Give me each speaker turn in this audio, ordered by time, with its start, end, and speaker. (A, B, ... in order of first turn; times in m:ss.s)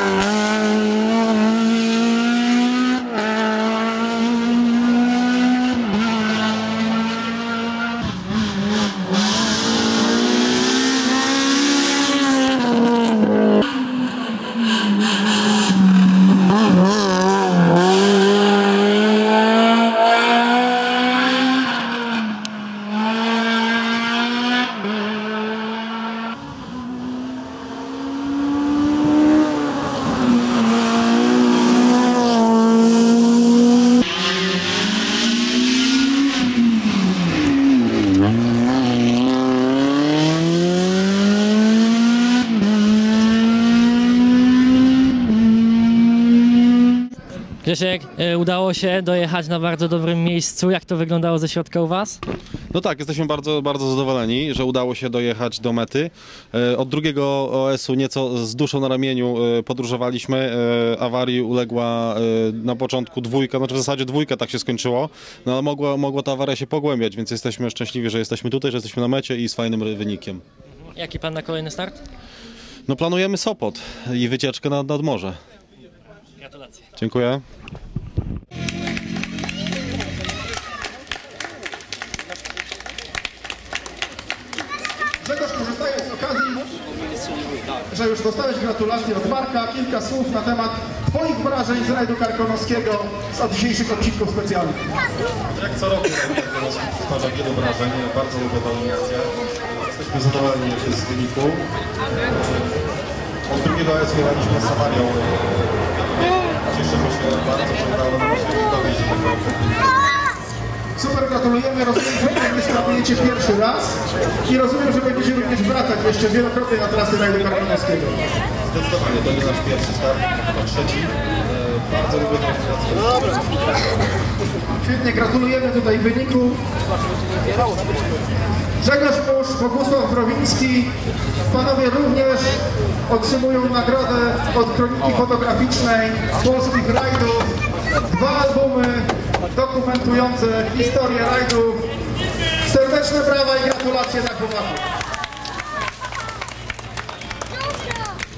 0:47.6-0:52.2 A
0:52.7-1:10.4 B
1:10.9-1:12.0 A
1:12.9-1:15.4 B
1:17.0-1:17.4 B
1:25.2-1:26.7 C
1:27.9-1:34.8 C
1:35.5-1:41.7 B
1:42.3-1:42.8 B
1:43.5-1:50.1 B
1:51.0-1:58.2 C
1:58.7-2:03.4 B
2:04.8-2:06.6 C
2:08.8-2:10.9 C
2:11.5-2:17.5 C
2:18.0-2:21.9 C
2:22.6-2:24.8 C